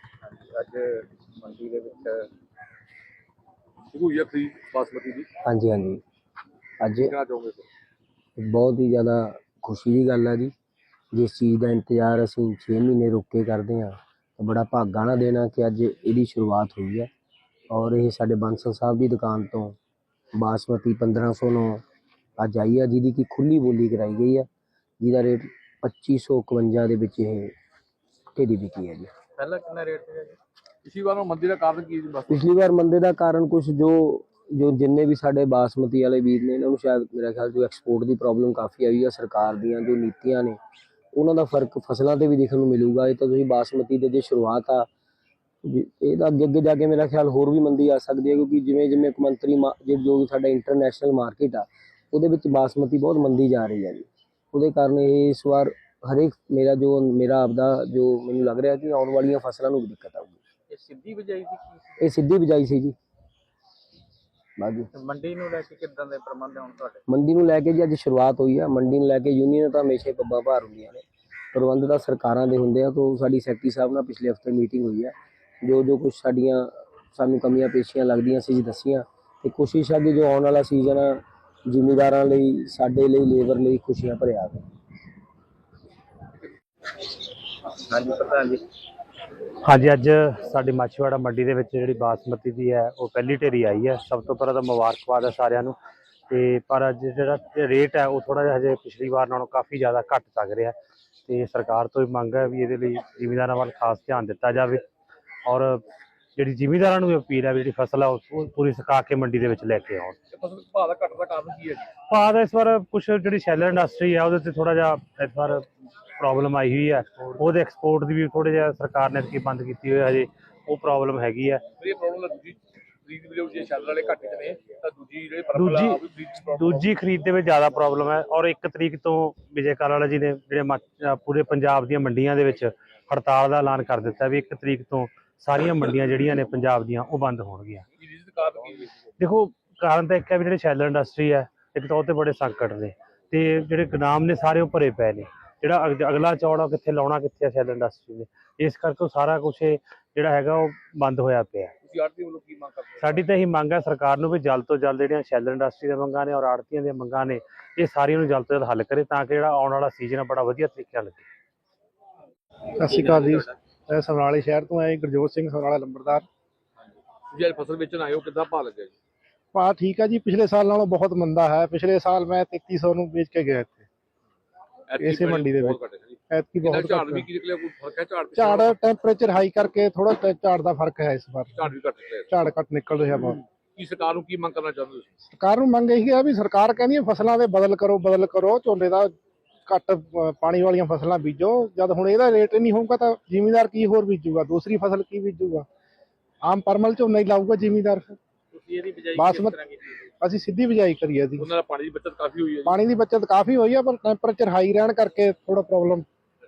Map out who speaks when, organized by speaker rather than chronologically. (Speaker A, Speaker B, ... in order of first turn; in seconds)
Speaker A: 0.4-2.3, 29.4-30.4, 60.7-62.0, 64.9-67.0, 87.9-88.6, 198.5-200.1
Speaker B: 3.9-5.3, 7.0-7.7, 30.8-32.4, 110.3-111.9, 121.8-126.9, 138.0-138.9, 151.8-153.3, 167.3-168.9, 174.9-178.8, 181.5-182.3, 183.7-185.2, 201.4-202.8
Speaker C: 5.4-6.0, 6.8-7.1, 8.4-10.5, 11.1-17.1, 17.7-19.8, 20.3-21.8, 22.4-24.5, 25.0-27.5, 28.3-29.1, 32.3-40.6, 41.1-44.9, 45.6-60.4, 62.0-63.0, 64.6-64.9, 67.1-84.6
Speaker D: 89.6-95.8, 96.3-100.7, 101.2-104.8, 105.5-105.8, 106.3-110.2, 112.1-121.6, 125.5-137.8, 139.2-151.7, 153.0-161.2
Speaker E: 162.8-166.2, 169.5-173.8, 175.0-175.8, 176.3-177.2, 178.3-181.7, 182.3-183.4, 185.3-189.1, 189.7-195.7, 196.4-198.2, 199.2-199.6, 200.2-201.5, 202.6-206.0